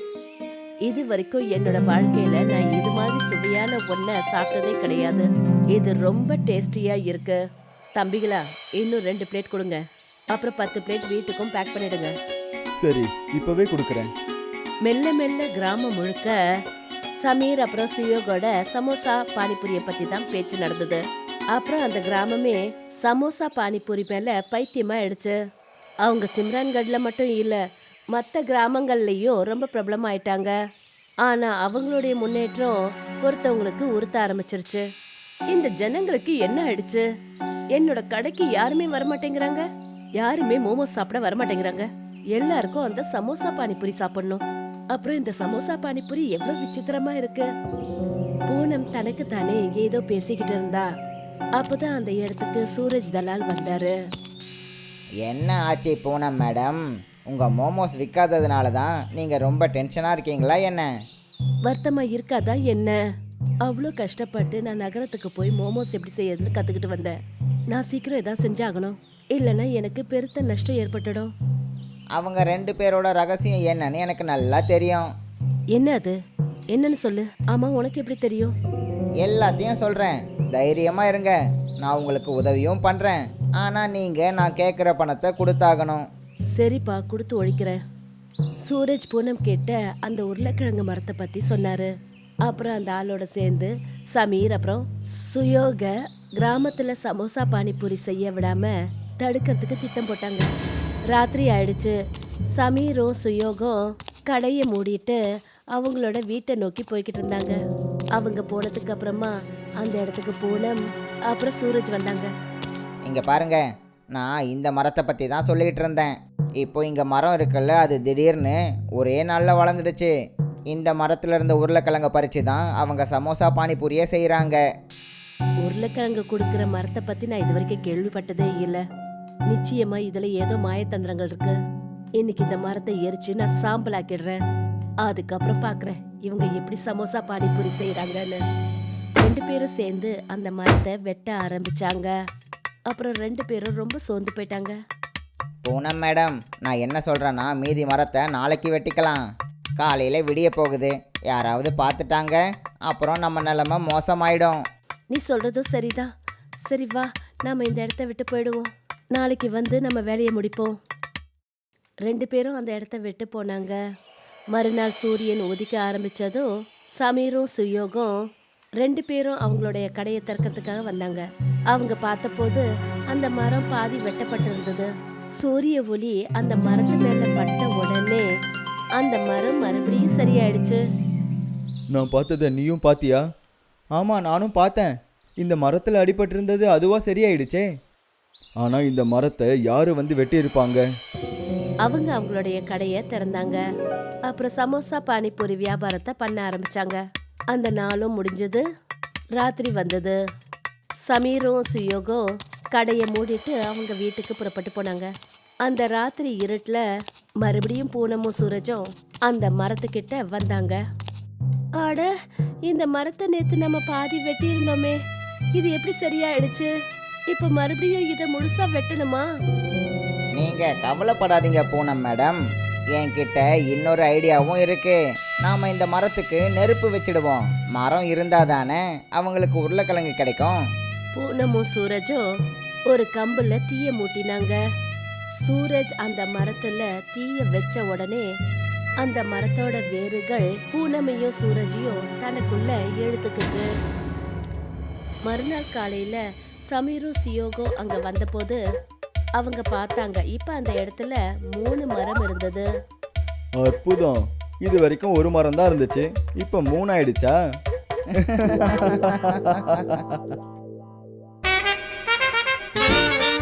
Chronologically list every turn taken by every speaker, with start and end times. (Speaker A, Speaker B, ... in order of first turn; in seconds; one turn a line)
Speaker A: 0.9-7.4
Speaker A: 8.0-9.8
Speaker A: 10.3-12.1
Speaker B: 12.8-14.1
Speaker A: 14.8-16.3
Speaker A: 17.2-21.0
Speaker A: 21.5-25.3
Speaker A: 26.0-27.6
Speaker A: 28.1-30.5
Speaker A: 31.2-34.8
Speaker A: 35.5-37.0
Speaker A: 37.7-39.6
Speaker A: 40.2-44.4
Speaker A: 44.9-47.5
Speaker A: 48.5-50.9
Speaker A: 51.6-53.9
Speaker C: 55.2-60.9
Speaker A: 61.6-63.0
Speaker A: 63.6-67.1
Speaker A: 67.7-71.3
Speaker C: 72.2-75.1
Speaker A: 75.7-76.2
Speaker A: 76.7-78.5
Speaker C: 79.2-86.0
Speaker A: 86.5-87.8
Speaker A: 88.6-91.9
Speaker A: 92.4-100.5
Speaker A: 101.1-101.9
Speaker A: 102.5-105.2
Speaker A: 105.7-107.6
Speaker A: 108.2-110.8
Speaker A: 111.3-112.3
Speaker C: 113.0-113.6
Speaker C: 114.1-120.1
Speaker C: 120.7-124.6
Speaker A: 125.6-128.8
Speaker A: 129.5-131.6
Speaker A: 132.2-134.4
Speaker A: 135.0-138.4
Speaker A: 139.2-142.1
Speaker A: 142.9-144.8
Speaker C: 145.6-149.2
Speaker C: 149.8-154.6
Speaker A: 155.1-156.1
Speaker A: 156.7-160.7
Speaker A: 162.1-163.8
Speaker A: 164.5-166.5
Speaker A: 167.0-168.1
Speaker A: 168.8-174.9
Speaker A: 175.4-178.2
Speaker A: 179.0-180.8
Speaker B: 181.9-183.2
Speaker B: 183.9-187.7
Speaker B: 188.6-190.8
Speaker A: 191.8-193.6
Speaker A: 194.3-197.0
Speaker A: 197.5-198.6
Speaker A: 199.4-200.2
Speaker A: 201.1-205.1
Speaker A: 205.7-206.8
Speaker A: 207.4-210.8
Speaker A: 211.8-212.1
Speaker A: 212.6-215.0
Speaker A: 215.6-216.7
Speaker A: 217.3-219.2
Speaker C: 220.4-222.4
Speaker C: 222.9-230.6
Speaker A: 231.1-232.2
Speaker A: 232.9-234.6
Speaker A: 235.4-238.2
Speaker A: 239.0-243.7
Speaker A: 245.3-248.6
Speaker A: 249.4-252.7
Speaker B: 253.6-257.4
Speaker B: 258.1-260.4